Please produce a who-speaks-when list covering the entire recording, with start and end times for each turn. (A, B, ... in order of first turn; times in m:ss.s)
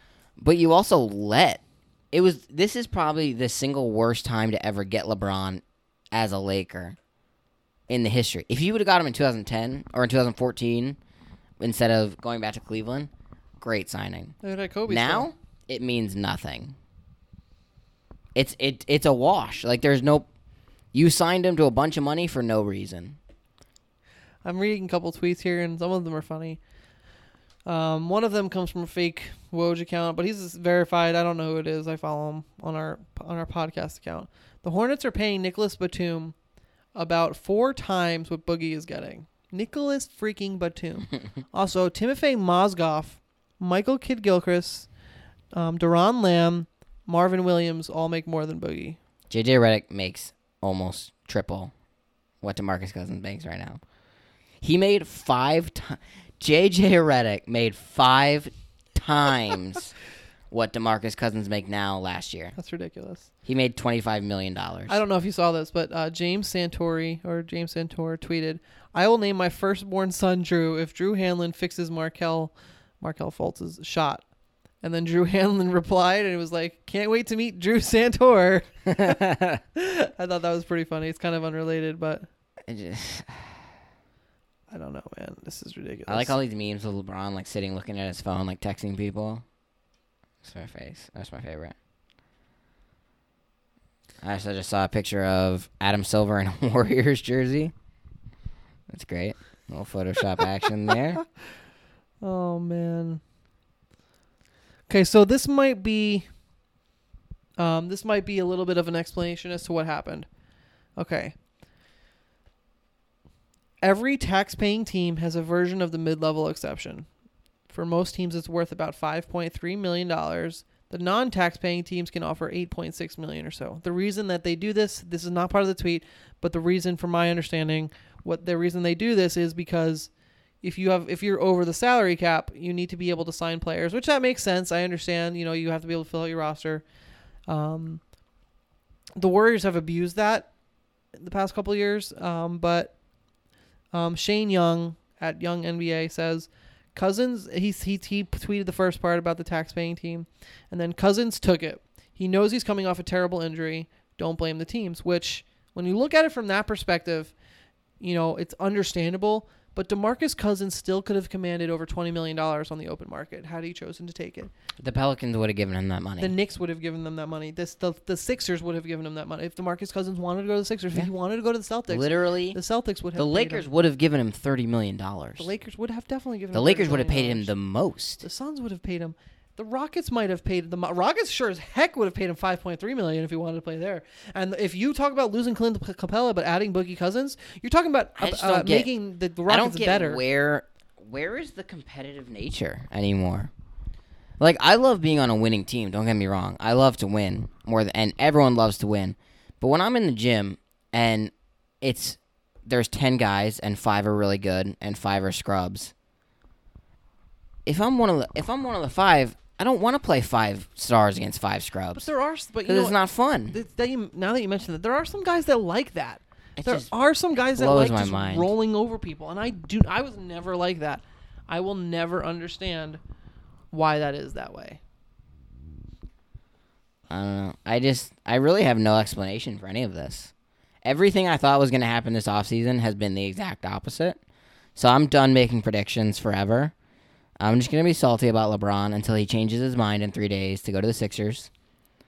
0:00.4-0:07.0 A
0:07.9-0:11.0 A
0:11.6-0:14.4 A
0:14.4-0:15.3 B
0:14.9-0:16.8 A
0:18.3-0:20.3 A
0:20.9-0:23.2 A
0:24.4-0:26.6 B
0:27.6-0:36.3 B
0:36.9-0:44.9 B
0:45.5-0:49.0 B
0:49.3-0:51.7 A
0:52.4-0:53.8 A
0:54.6-0:59.9 A
1:00.5-1:02.5 A
1:02.6-1:03.3 B
1:03.4-1:05.0 A
1:04.9-1:14.2 B
1:14.8-1:19.2 B
1:18.9-1:19.6 A
1:19.8-1:22.2 B
1:22.6-1:23.6 A
1:24.7-1:26.3 B
1:26.1-1:29.4 A
1:30.4-1:31.7 A
1:34.2-1:37.7 A
1:38.9-1:41.2 A
1:42.2-1:43.2 B
1:44.9-1:46.2 B
1:47.6-1:50.3 B
1:51.0-1:51.3 B
1:53.8-1:57.1 B
1:57.7-2:10.1 B
2:10.6-2:16.8 B
2:17.5-2:18.0 B
2:19.2-2:20.5 B
2:21.2-2:22.9 B
2:23.9-2:37.3 B
2:38.0-2:44.5 B
2:44.8-2:46.3 A
2:46.2-2:53.7 B
2:51.9-2:52.6 A
2:53.1-2:55.5 A
2:55.4-2:57.5 B
2:56.5-2:58.2 A
2:58.2-3:10.2 B
3:08.2-3:08.9 A
3:09.5-3:13.5 A
3:14.4-3:25.9 A
3:27.6-3:32.1 A
3:31.9-3:43.0 B
3:32.6-3:33.6 A
3:36.6-3:36.9 A
3:37.5-3:38.5 A
3:43.7-3:44.8 B
3:47.1-3:50.3 A
3:50.8-3:54.2 A
3:54.8-3:56.7 A
3:57.4-4:01.5 A